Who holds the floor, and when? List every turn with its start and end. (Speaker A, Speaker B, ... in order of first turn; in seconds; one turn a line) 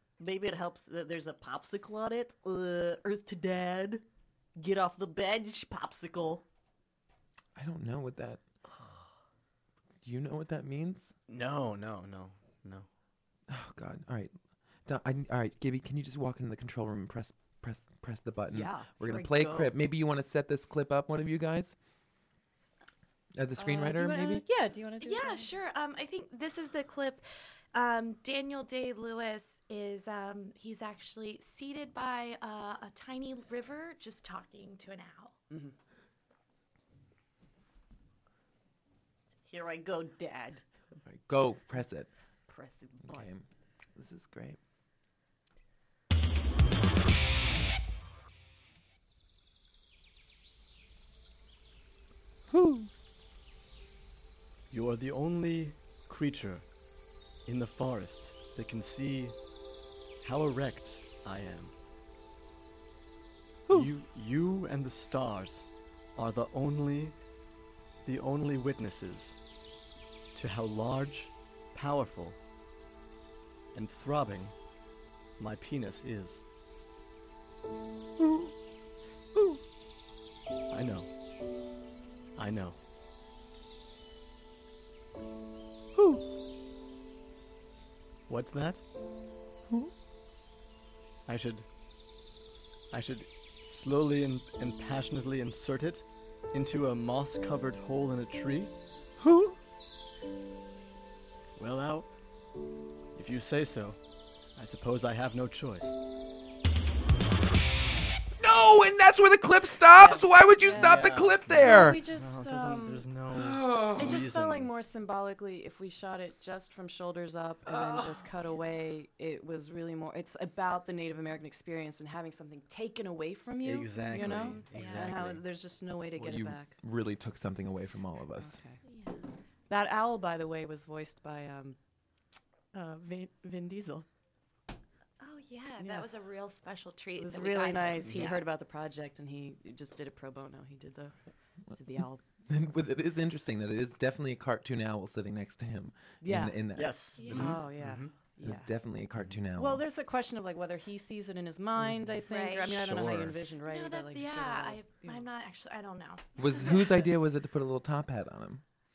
Speaker A: 0.2-4.0
Speaker A: 4.5-6.4
Speaker B: 7.5-8.4
Speaker B: 10.0-11.1
Speaker C: 11.3-12.9
Speaker B: 13.5-14.3
Speaker B: 14.8-21.7
Speaker A: 18.5-19.7
Speaker B: 23.4-24.4
Speaker A: 23.6-25.5
Speaker D: 25.0-35.3
Speaker A: 39.5-40.6
Speaker B: 41.0-42.1
Speaker A: 42.5-43.3
Speaker B: 43.0-43.4
Speaker B: 44.0-44.6
Speaker B: 52.5-52.9
Speaker C: 54.7-56.6
Speaker C: 57.5-59.4
Speaker C: 60.2-61.7
Speaker C: 63.7-67.1
Speaker C: 68.0-69.3
Speaker C: 70.3-72.4
Speaker C: 73.7-74.5
Speaker C: 75.4-76.4
Speaker B: 78.2-78.5
Speaker C: 80.7-81.1
Speaker C: 82.4-82.8
Speaker B: 86.0-86.2
Speaker C: 88.3-88.8
Speaker C: 91.2-91.7
Speaker C: 92.9-98.7
Speaker B: 99.2-99.5
Speaker C: 101.6-102.1
Speaker C: 103.1-104.0
Speaker C: 104.5-106.0
Speaker B: 108.4-112.0
Speaker A: 109.9-113.0
Speaker C: 110.6-114.7
Speaker B: 113.3-114.2
Speaker A: 113.9-126.7
Speaker B: 117.7-118.2
Speaker C: 123.6-125.4
Speaker D: 124.1-125.1
Speaker B: 126.2-128.5
Speaker A: 128.3-128.8
Speaker D: 128.8-129.2
Speaker A: 129.7-131.8
Speaker A: 132.7-134.1
Speaker D: 135.2-138.4
Speaker A: 135.8-136.1
Speaker A: 137.2-141.1
Speaker A: 141.7-142.2
Speaker B: 142.5-147.4
Speaker A: 146.2-146.6
Speaker C: 146.8-148.1
Speaker D: 147.2-147.6
Speaker A: 147.2-148.7
Speaker B: 148.4-149.8
Speaker A: 149.6-155.2
Speaker D: 152.3-152.8
Speaker C: 152.7-153.3
Speaker D: 153.6-156.8
Speaker B: 156.4-158.6